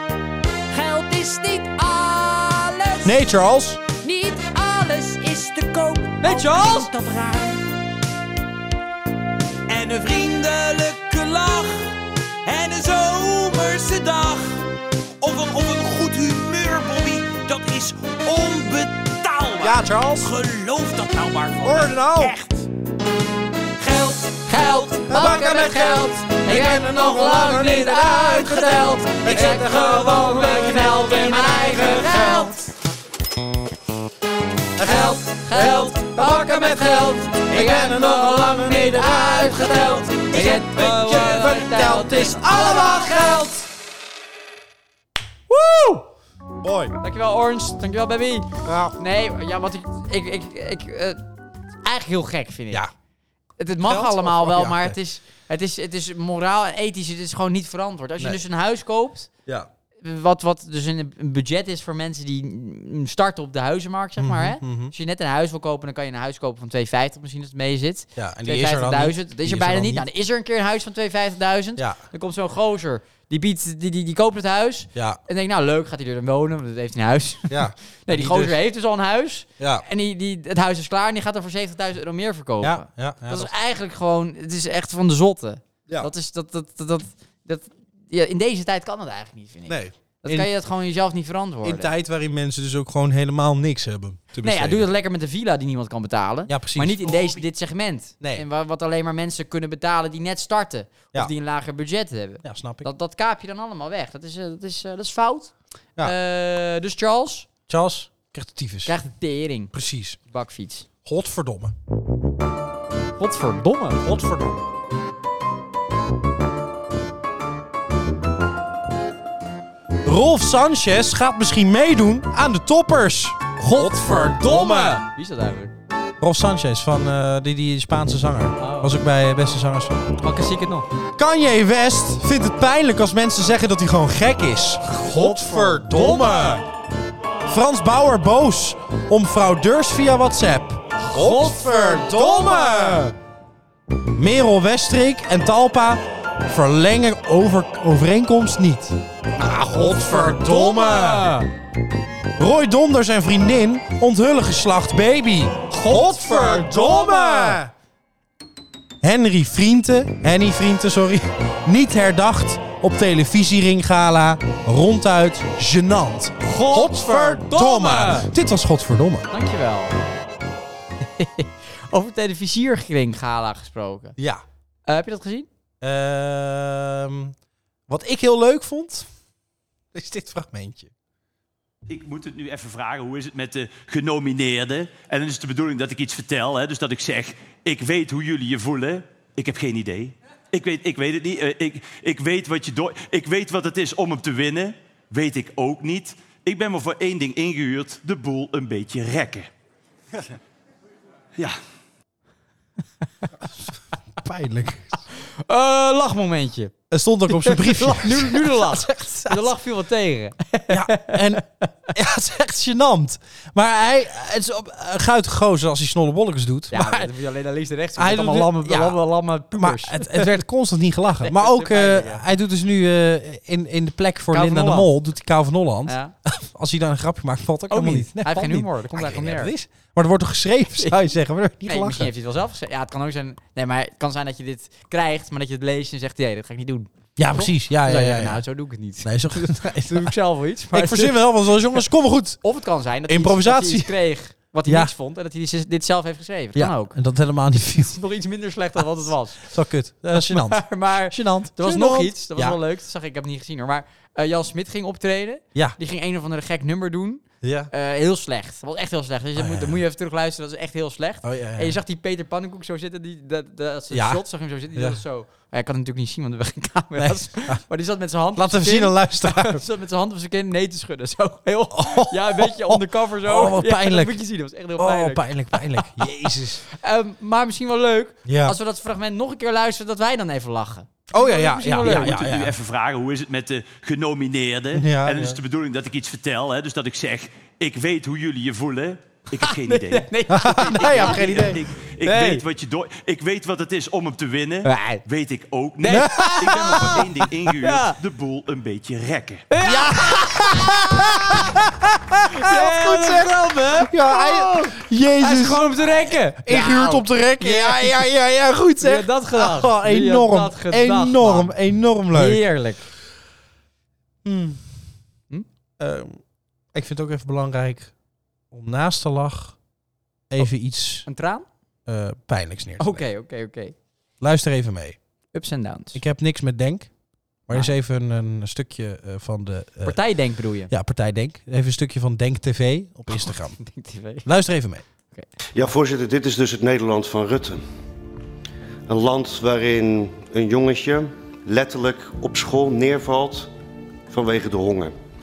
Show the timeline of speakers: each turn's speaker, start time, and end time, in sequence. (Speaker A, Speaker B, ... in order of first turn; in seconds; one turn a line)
Speaker A: 0.7-3.2
Speaker B: 3.0-3.8
Speaker A: 4.0-7.6
Speaker C: 6.2-6.9
Speaker D: 9.7-11.9
Speaker D: 12.4-14.6
Speaker D: 15.2-19.8
Speaker B: 19.6-20.3
Speaker D: 20.3-21.5
Speaker A: 20.4-22.3
Speaker B: 21.6-22.4
Speaker D: 22.2-22.6
Speaker A: 23.8-24.8
Speaker C: 24.4-32.7
Speaker B: 25.1-32.5
Speaker A: 29.4-29.7
Speaker B: 34.8-43.6
Speaker C: 34.8-43.4
Speaker C: 45.5-46.1
Speaker B: 46.6-46.9
Speaker C: 47.0-51.2
Speaker B: 48.6-49.0
Speaker C: 51.8-52.9
Speaker C: 53.6-59.3
Speaker B: 53.9-55.0
Speaker C: 60.0-91.9
Speaker B: 64.2-64.9
Speaker B: 68.2-70.1
Speaker B: 75.0-75.2
Speaker B: 77.5-78.6
Speaker B: 79.6-79.8
Speaker B: 82.6-83.5
Speaker B: 89.7-90.5
Speaker B: 91.6-94.9
Speaker C: 94.4-107.5
Speaker B: 96.5-97.4
Speaker B: 102.4-102.9
Speaker B: 107.7-108.9
Speaker C: 108.8-109.7
Speaker B: 109.7-110.2
Speaker C: 110.3-110.9
Speaker B: 111.0-111.7
Speaker C: 113.2-114.0
Speaker B: 114.0-114.6
Speaker B: 120.0-125.0
Speaker C: 123.7-125.7
Speaker B: 126.2-130.0
Speaker C: 128.6-129.0
Speaker C: 130.2-130.9
Speaker B: 131.2-136.6
Speaker C: 134.9-136.6
Speaker B: 137.5-143.1
Speaker C: 141.0-143.1
Speaker B: 144.2-151.3
Speaker C: 149.4-151.5
Speaker B: 152.4-157.7
Speaker C: 155.7-157.6
Speaker B: 159.0-169.3
Speaker C: 166.4-168.3
Speaker C: 169.3-169.9
Speaker C: 171.2-174.2
Speaker B: 174.2-174.4
Speaker C: 174.9-175.5
Speaker B: 175.8-177.3
Speaker B: 177.9-179.1
Speaker B: 179.9-180.9
Speaker D: 181.9-199.5
Speaker B: 204.2-205.0
Speaker C: 205.2-206.7
Speaker B: 206.9-209.5
Speaker C: 207.3-211.7
Speaker B: 210.7-217.1
Speaker C: 216.7-220.4
Speaker B: 218.0-219.0
Speaker B: 219.5-232.1
Speaker C: 221.2-222.3
Speaker C: 224.3-224.9
Speaker C: 225.9-226.1
Speaker C: 227.7-229.5
Speaker C: 231.7-241.2
Speaker B: 237.2-238.4
Speaker B: 239.0-240.1
Speaker B: 240.7-242.4
Speaker C: 242.4-247.0
Speaker B: 243.1-243.9
Speaker B: 244.7-244.9
Speaker B: 246.6-248.0
Speaker C: 247.7-249.5
Speaker B: 249.4-252.6
Speaker C: 250.1-276.1
Speaker B: 257.4-257.7
Speaker B: 259.4-259.8
Speaker B: 261.2-261.8
Speaker B: 263.9-264.2
Speaker B: 264.8-265.0
Speaker B: 267.0-267.6
Speaker B: 268.4-269.6
Speaker B: 271.7-274.2
Speaker B: 274.8-276.6
Speaker C: 276.6-282.2
Speaker B: 278.3-278.6
Speaker B: 281.1-282.5
Speaker D: 281.8-299.4
Speaker B: 284.7-285.4
Speaker C: 289.4-292.4
Speaker B: 290.3-291.6
Speaker C: 294.6-295.0
Speaker C: 295.9-297.0
Speaker B: 295.9-297.0
Speaker C: 297.6-298.0
Speaker C: 299.5-301.5
Speaker B: 299.6-312.4
Speaker C: 302.3-308.0
Speaker C: 308.8-311.6
Speaker C: 312.1-312.9
Speaker B: 314.2-314.7
Speaker B: 315.8-316.2
Speaker B: 316.7-317.9
Speaker B: 318.5-319.6
Speaker B: 320.3-321.1
Speaker C: 321.1-321.5
Speaker B: 321.9-323.0
Speaker C: 322.8-323.8
Speaker B: 324.2-325.0
Speaker C: 325.3-326.0
Speaker B: 325.9-326.9
Speaker B: 327.5-330.0
Speaker C: 329.8-330.7
Speaker B: 330.7-333.6
Speaker C: 333.1-334.3
Speaker B: 334.2-334.8
Speaker E: 335.6-337.6
Speaker E: 338.9-343.5
Speaker E: 344.1-344.9